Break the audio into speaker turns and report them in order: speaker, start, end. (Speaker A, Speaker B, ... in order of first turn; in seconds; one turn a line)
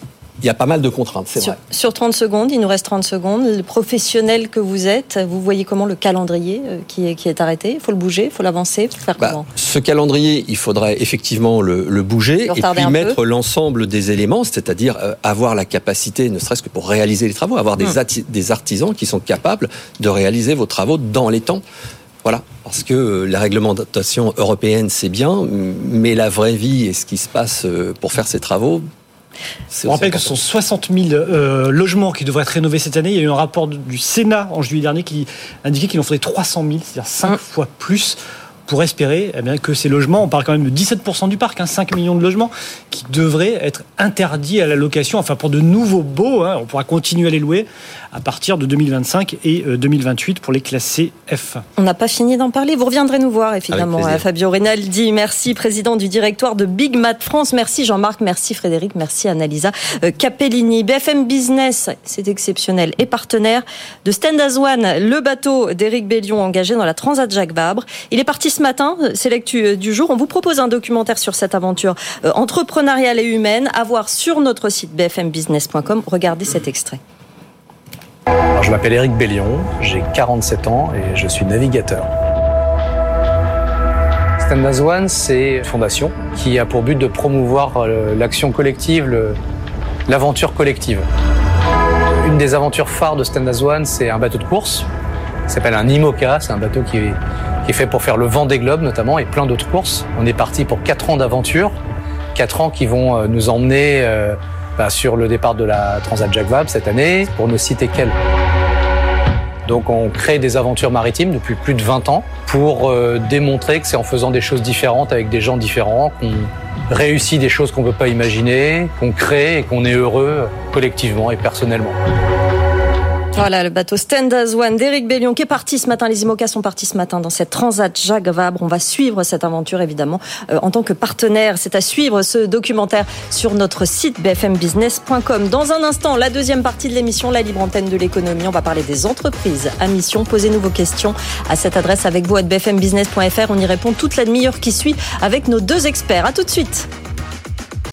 Speaker A: 0.4-1.6
Speaker B: 1.4-9.4
Speaker A: 9.2-21.6
Speaker B: 12.5-13.2
Speaker A: 22.2-28.8
Speaker A: 29.7-30.3
Speaker C: 29.9-51.6
Speaker B: 51.8-77.0
Speaker A: 53.7-54.2
Speaker D: 78.5-82.1
Speaker D: 84.4-89.4
Speaker D: 90.1-91.0
Speaker D: 92.2-94.9
Speaker D: 95.5-101.8
Speaker D: 102.3-108.1
Speaker D: 109.7-122.0
Speaker B: 123.3-146.9